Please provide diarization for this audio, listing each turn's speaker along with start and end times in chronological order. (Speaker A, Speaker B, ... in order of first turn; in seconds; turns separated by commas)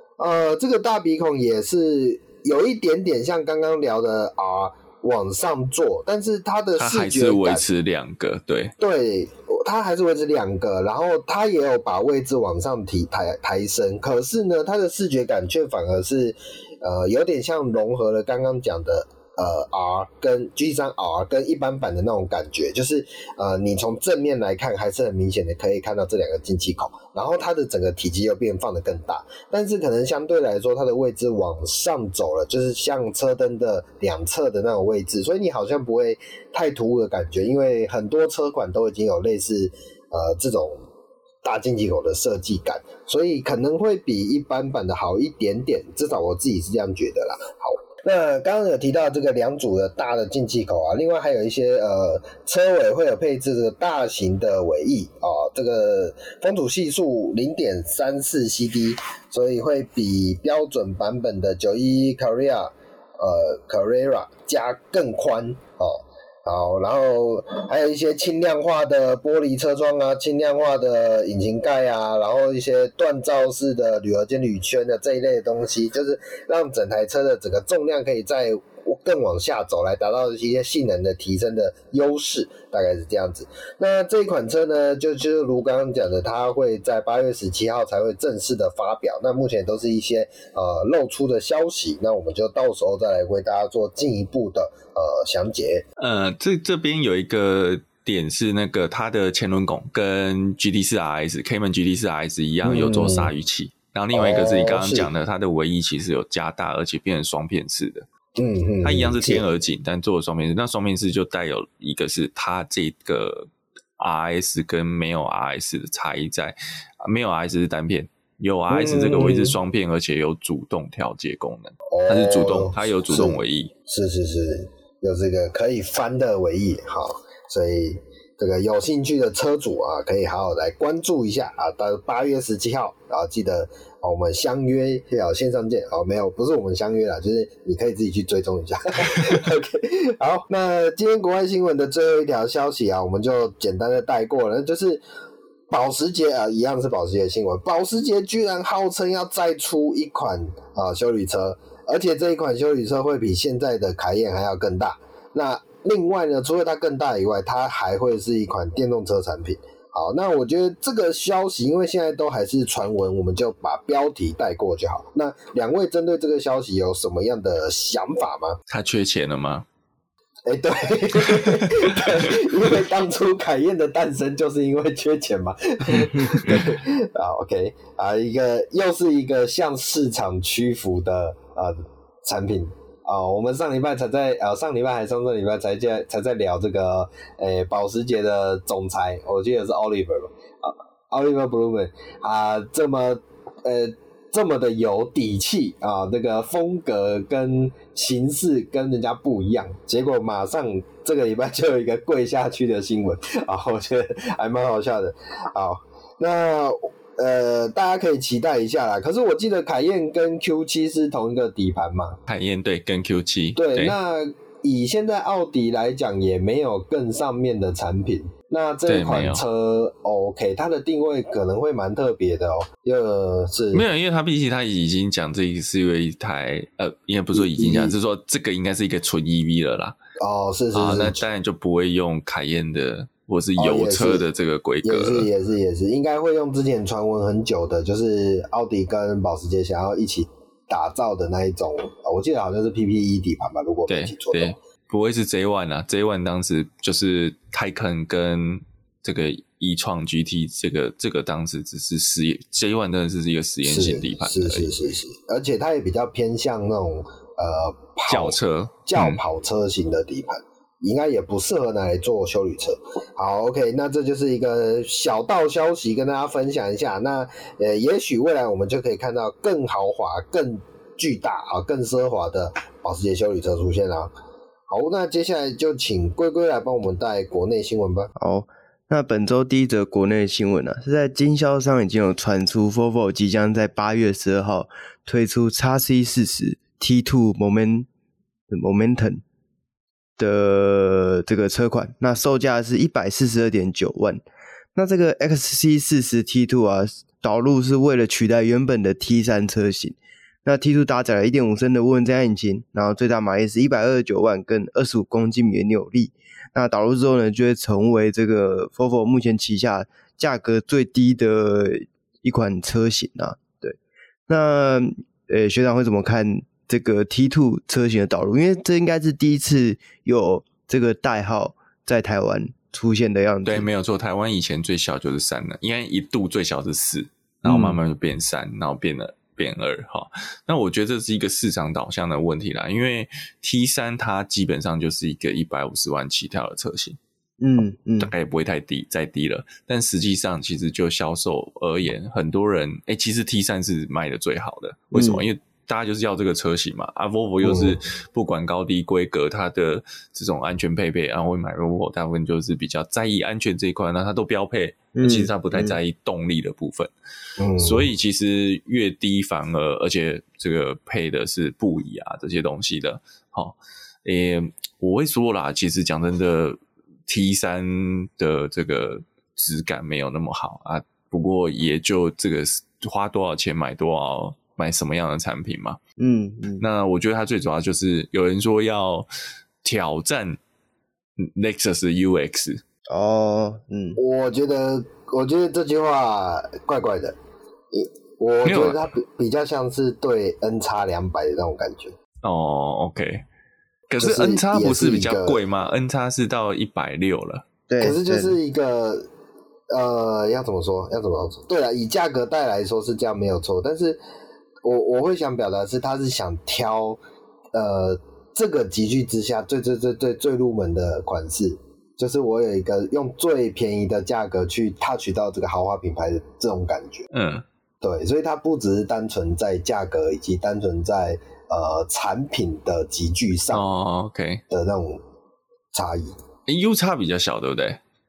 Speaker A: 0.2-7.6, Speaker B: 6.8-8.7, Speaker A: 8.8-40.8, Speaker A: 41.4-95.8, Speaker B: 96.0-108.1, Speaker A: 102.6-103.3, Speaker A: 104.1-105.1, Speaker A: 108.3-109.4, Speaker B: 108.8-123.7, Speaker A: 118.7-119.6, Speaker A: 121.9-145.0, Speaker A: 145.7-168.6, Speaker B: 168.7-169.7, Speaker A: 170.5-212.2, Speaker B: 171.5-172.1, Speaker B: 212.3-213.9, Speaker A: 213.6-223.8, Speaker B: 218.8-219.4, Speaker B: 223.7-229.9, Speaker A: 227.3-227.9, Speaker A: 230.2-231.2, Speaker B: 230.7-235.3, Speaker A: 233.6-234.2, Speaker A: 234.8-244.6, Speaker B: 243.9-254.7, Speaker A: 253.6-274.1, Speaker B: 258.1-259.2, Speaker A: 274.7-278.1, Speaker C: 278.2-287.9, Speaker C: 288.5-289.2, Speaker C: 290.2-294.2, Speaker C: 294.8-313.8, Speaker C: 314.3-323.7, Speaker B: 323.4-337.0, Speaker C: 327.4-327.8, Speaker C: 337.4-338.1, Speaker B: 338.0-356.9, Speaker C: 344.9-345.2, Speaker A: 347.4-347.8, Speaker C: 354.9-355.8, Speaker A: 357.4-357.9, Speaker B: 357.6-375.8, Speaker C: 376.0-376.6, Speaker B: 376.6-379.1, Speaker B: 379.6-380.4, Speaker B: 381.2-382.6, Speaker C: 382.9-384.0, Speaker A: 383.9-387.1, Speaker A: 388.2-391.9, Speaker B: 388.4-388.8, Speaker B: 392.2-393.2, Speaker B: 393.9-397.5, Speaker A: 394.0-395.4, Speaker C: 397.7-398.4, Speaker A: 397.8-399.1, Speaker A: 399.7-404.0, Speaker A: 404.6-407.0, Speaker A: 407.5-417.1, Speaker B: 417.1-417.4, Speaker A: 417.8-423.6, Speaker B: 423.5-424.4, Speaker A: 424.5-425.0, Speaker A: 425.7-426.1, Speaker B: 426.5-427.8